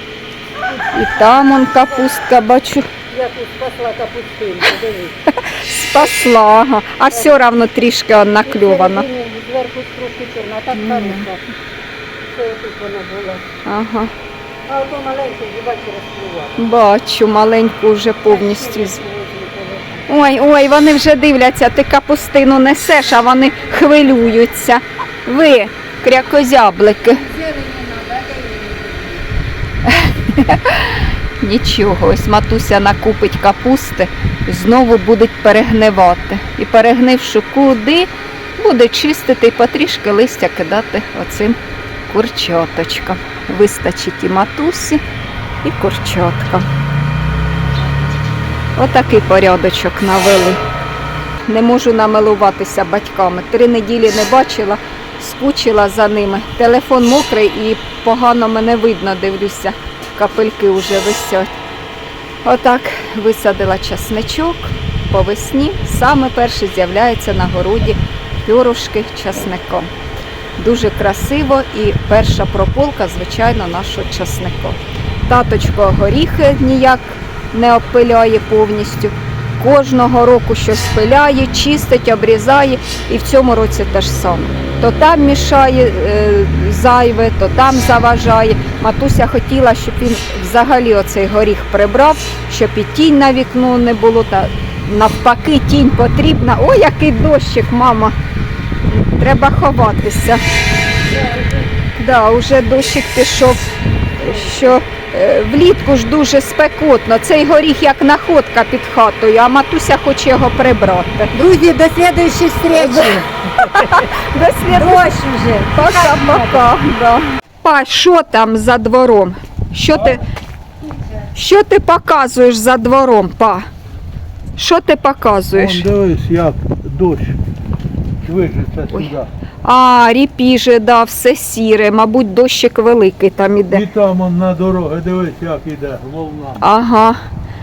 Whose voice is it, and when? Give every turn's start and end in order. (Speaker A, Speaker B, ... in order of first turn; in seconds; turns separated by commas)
Speaker A: 0.6-2.1, Speaker B: 0.9-2.9, Speaker A: 3.1-5.2, Speaker B: 5.3-9.1, Speaker A: 7.1-7.4, Speaker A: 8.5-11.5, Speaker B: 10.8-11.2, Speaker A: 12.2-13.4, Speaker B: 13.7-14.1, Speaker A: 14.7-16.6, Speaker B: 16.6-19.0, Speaker A: 18.2-20.1, Speaker B: 20.1-27.2, Speaker A: 23.4-24.4, Speaker A: 27.0-29.3, Speaker B: 29.9-41.6, Speaker B: 42.1-45.0, Speaker B: 45.6-46.6, Speaker B: 48.8-50.6, Speaker B: 51.5-61.5, Speaker B: 62.4-69.9, Speaker B: 70.6-98.1, Speaker B: 98.9-100.4, Speaker A: 101.1-101.7, Speaker B: 102.0-103.6, Speaker B: 104.2-111.3, Speaker A: 104.2-104.7, Speaker A: 111.3-113.3, Speaker B: 112.7-115.2, Speaker A: 113.8-114.1, Speaker A: 114.6-116.8, Speaker B: 115.7-120.2, Speaker A: 120.8-121.3, Speaker B: 121.3-123.7, Speaker B: 124.6-125.9, Speaker C: 125.5-127.4, Speaker C: 128.2-129.3, Speaker B: 129.6-133.8, Speaker C: 133.7-136.6, Speaker B: 136.6-137.2